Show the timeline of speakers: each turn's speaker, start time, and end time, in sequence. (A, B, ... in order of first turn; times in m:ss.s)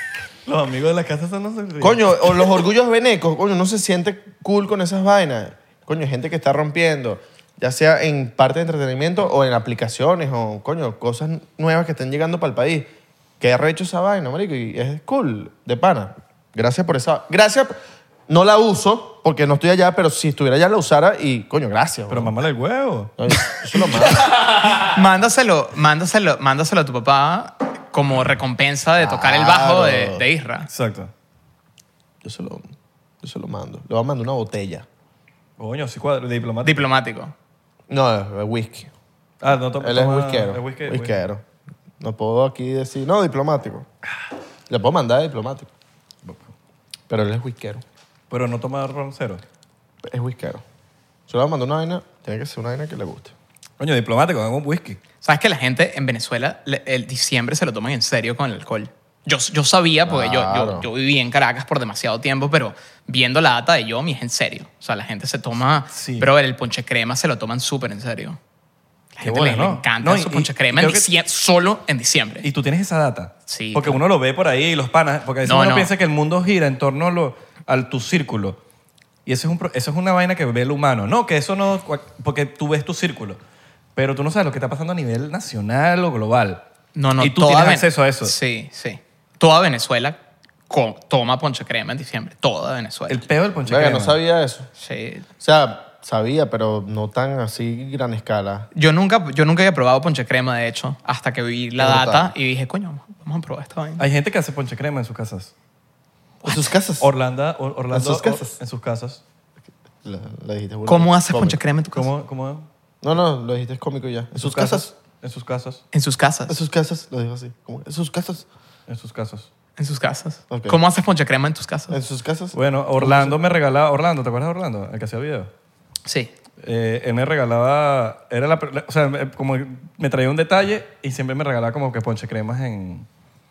0:00.4-0:02.6 A
0:01.8-0:17.8 B
0:18.3-0:22.3 B
0:22.1-0:23.1 A
0:23.2-0:24.2 B
0:24.8-0:30.7 C
0:29.0-0:30.2 B
0:30.7-0:31.1 A
0:32.2-0:34.8 B
0:35.6-0:36.9 A
0:36.6-0:37.3 C
0:37.9-0:38.9 B
0:39.4-0:41.2 A
0:39.8-0:41.4 B
0:42.0-0:43.9 B
0:44.7-0:45.7 B
0:47.1-0:47.8 B
0:48.3-0:49.4 A
0:50.0-0:50.6 B
0:51.3-0:53.3 B
0:53.8-0:55.0 A
0:55.2-1:08.4 C
1:00.0-1:00.9 B
1:05.9-1:06.3 A
1:09.2-1:12.5 C
1:09.2-1:11.1 A
1:12.4-1:18.6 A
1:13.5-1:14.0 C
1:15.4-1:15.9 C
1:19.2-1:23.4 A
1:24.0-1:26.6 A
1:26.9-1:30.2 C
1:27.2-1:28.3 A
1:30.7-1:33.2 C
1:33.1-1:34.2 A
1:33.6-1:34.7 B
1:34.8-1:35.2 C
1:35.4-1:38.7 B
1:38.7-1:44.0 C
1:41.8-1:42.3 B
1:44.0-1:45.5 A
1:46.4-1:47.1 B
1:47.0-1:49.2 A
1:47.9-1:48.5 B
1:50.0-1:51.6 B
1:50.8-1:52.1 C
1:51.9-1:52.7 A
1:53.0-1:54.9 B
1:54.3-1:55.8 A
1:55.9-1:56.6 C
1:56.5-1:58.4 B
1:58.9-1:59.5 A
1:59.8-2:02.0 C
2:00.5-2:00.8 B
2:01.9-2:03.4 B
2:02.5-2:05.5 A
2:06.0-2:06.3 C
2:06.6-2:13.0 A